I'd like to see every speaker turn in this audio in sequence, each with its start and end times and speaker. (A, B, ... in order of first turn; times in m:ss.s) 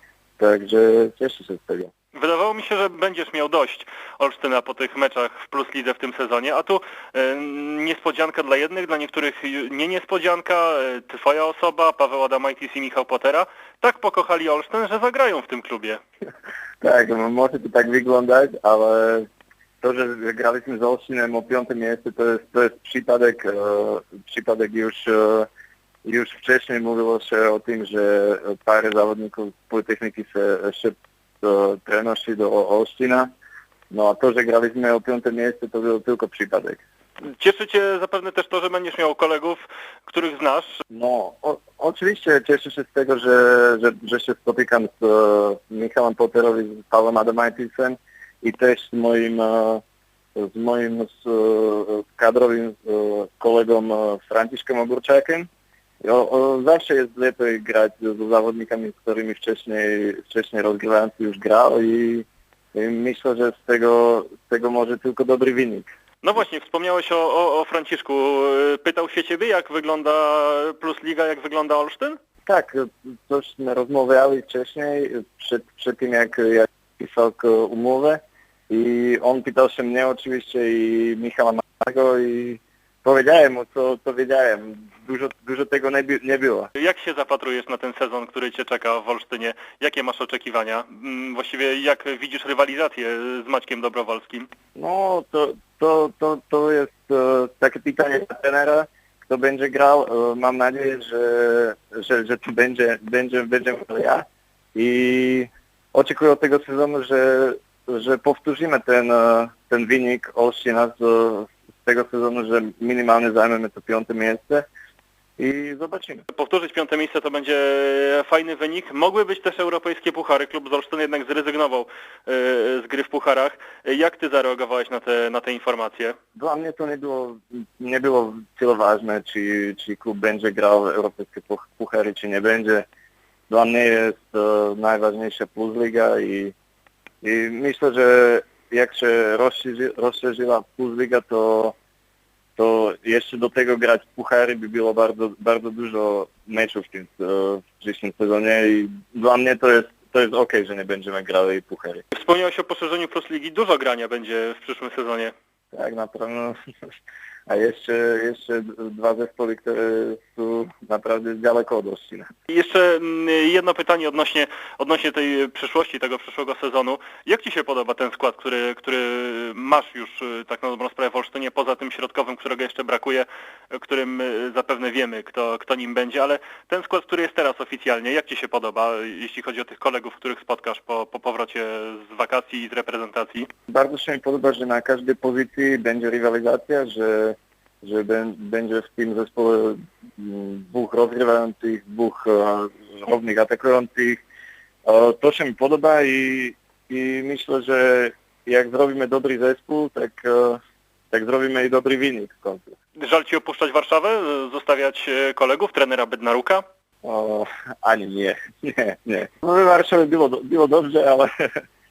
0:00.4-0:01.9 A
0:02.2-0:16.0 B
0:16.8-0:19.3 A
0:19.8-0:25.5 A
0:26.0-0:33.3 A
0:33.9-0:36.8 A
0:37.2-0:40.7 B
0:40.9-0:49.8 A
0:50.4-0:55.5 A
0:56.0-1:05.9 A
1:06.2-1:12.2 B
1:12.5-1:26.7 A
1:26.8-1:34.5 B
1:34.8-1:54.7 A
1:55.4-1:56.2 A
1:56.3-2:06.2 B
2:06.4-2:12.8 A
2:13.5-2:16.5 A
2:17.2-2:21.8 A
2:22.6-2:32.0 A
2:32.1-2:35.3 B
2:35.7-2:36.6 A
2:37.5-2:42.3 A
2:42.5-3:03.5 B
3:03.7-3:14.2 A
3:14.8-3:20.6 A
3:21.1-3:22.8 A
3:23.0-3:26.6 B
3:27.0-3:31.5 A